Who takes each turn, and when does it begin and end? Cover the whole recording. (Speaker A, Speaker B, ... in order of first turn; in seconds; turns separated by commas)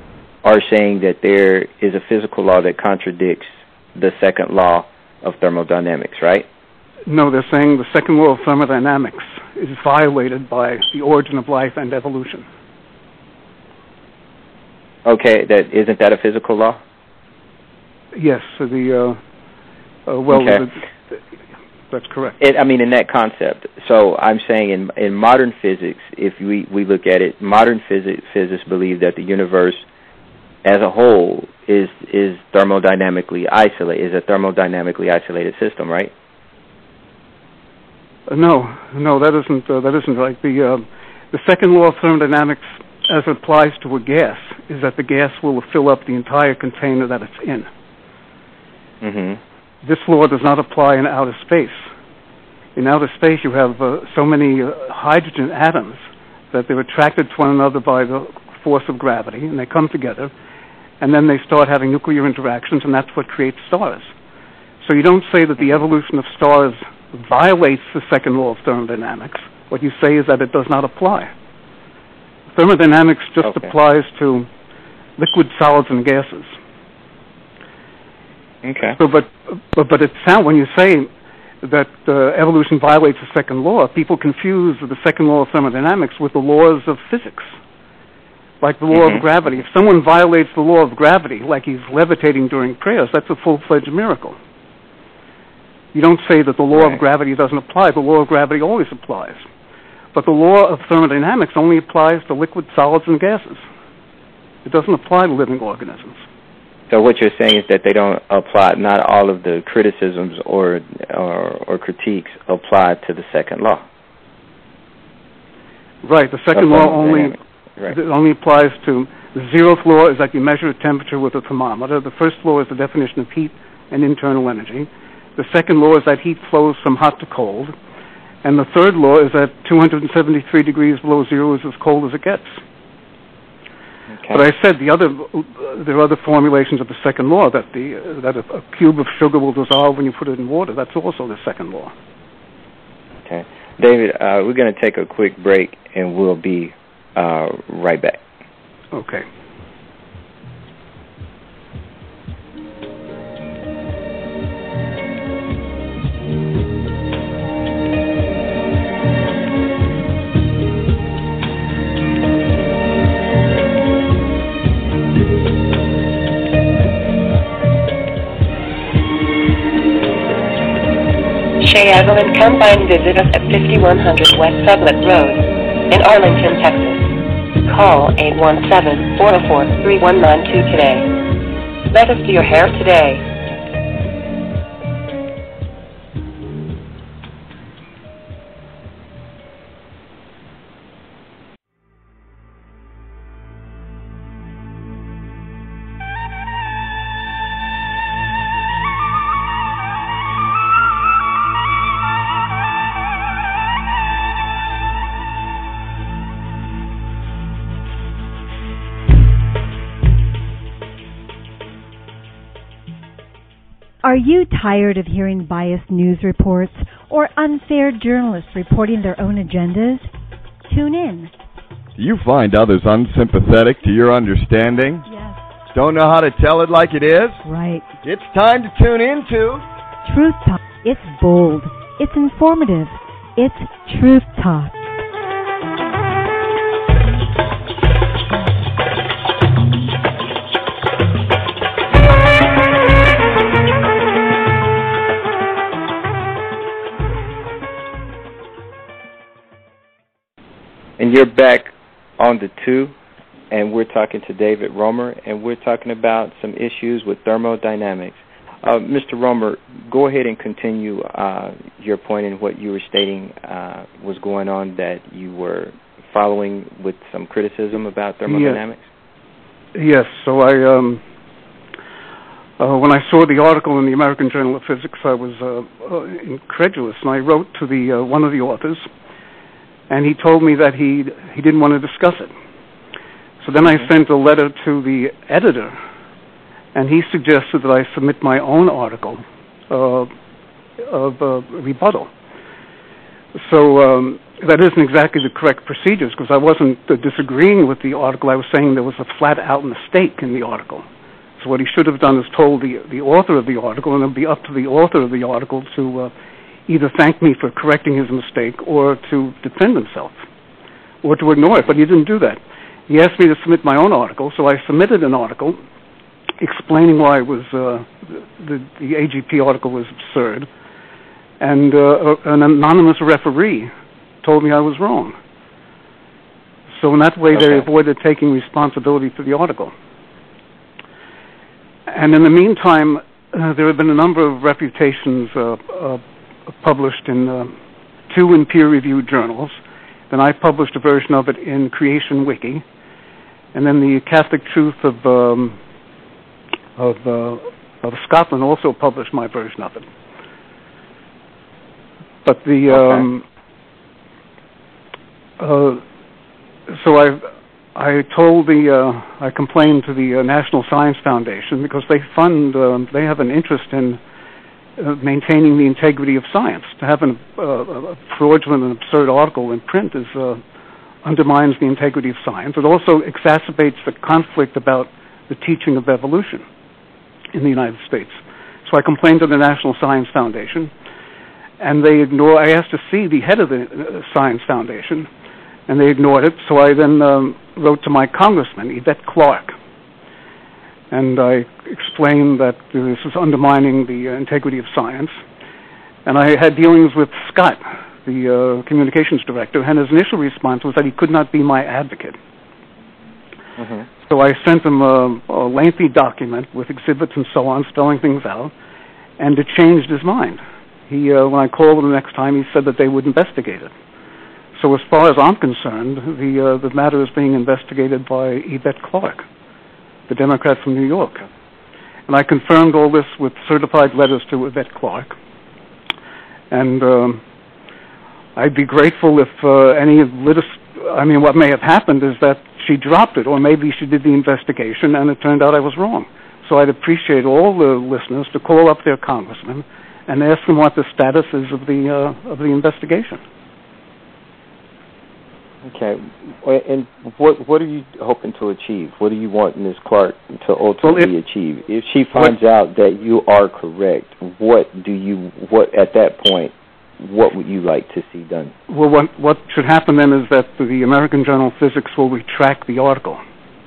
Speaker A: 0.4-6.5, Speaker B: 7.1-12.4, Speaker A: 15.0-16.8, Speaker B: 18.1-19.2, Speaker B: 20.1-21.2, Speaker A: 20.3-20.7, Speaker B: 21.9-22.4, Speaker A: 22.4-29.8, Speaker A: 30.6-36.1, Speaker B: 38.3-47.7, Speaker A: 49.0-49.4, Speaker B: 49.8-51.9, Speaker B: 52.8-56.0, Speaker B: 56.5-60.3, Speaker B: 61.0-64.1, Speaker B: 64.8-71.3, Speaker B: 72.5-74.5, Speaker A: 73.4-73.7, Speaker B: 75.2-76.5, Speaker A: 78.6-79.0, Speaker B: 79.0-81.1, Speaker B: 81.6-87.5, Speaker B: 88.6-94.4, Speaker A: 88.9-89.2, Speaker B: 95.9-99.4, Speaker B: 100.1-103.6, Speaker B: 104.6-106.2, Speaker A: 106.9-113.8, Speaker B: 116.0-127.7, Speaker A: 116.5-117.9, Speaker B: 128.4-132.6, Speaker B: 134.3-141.9, Speaker A: 143.2-148.2, Speaker B: 148.9-149.2, Speaker C: 171.6-177.1, Speaker C: 177.6-181.1, Speaker C: 181.9-183.2, Speaker D: 214.0-220.1, Speaker D: 220.7-221.3, Speaker E: 222.0-225.1, Speaker E: 225.7-227.4, Speaker D: 227.4-227.8, Speaker E: 228.0-229.6, Speaker D: 230.0-234.7, Speaker A: 251.0-252.9, Speaker A: 253.5-268.8, Speaker B: 268.3-268.6, Speaker B: 269.7-271.0, Speaker B: 272.6-278.8, Speaker B: 279.9-282.3, Speaker B: 283.4-285.8, Speaker B: 286.7-290.1, Speaker B: 290.8-292.1, Speaker B: 293.3-300.8, Speaker B: 301.4-306.1, Speaker B: 306.7-310.2, Speaker B: 311.0-315.6, Speaker B: 316.4-320.5, Speaker B: 321.4-323.7, Speaker B: 324.2-325.1, Speaker B: 326.8-329.7, Speaker A: 327.3-327.6, Speaker B: 331.9-337.5, Speaker B: 338.1-339.6, Speaker B: 340.1-342.6, Speaker B: 343.5-345.6, Speaker B: 346.8-349.9, Speaker B: 352.2-353.2, Speaker A: 352.7-353.0, Speaker B: 355.4-355.8, Speaker B: 356.7-364.0, Speaker B: 364.8-370.4, Speaker B: 371.0-376.4, Speaker B: 377.3-380.7, Speaker B: 381.6-385.1, Speaker B: 385.7-389.5, Speaker B: 390.9-395.2, Speaker B: 396.0-402.1, Speaker A: 403.6-403.8, Speaker B: 404.1-408.5, Speaker B: 409.2-413.7, Speaker B: 414.6-419.2, Speaker B: 420.1-421.2, Speaker B: 422.1-425.1, Speaker B: 426.5-427.2, Speaker B: 428.4-443.2, Speaker A: 445.6-458.5, Speaker B: 450.8-451.1, Speaker B: 458.7-463.2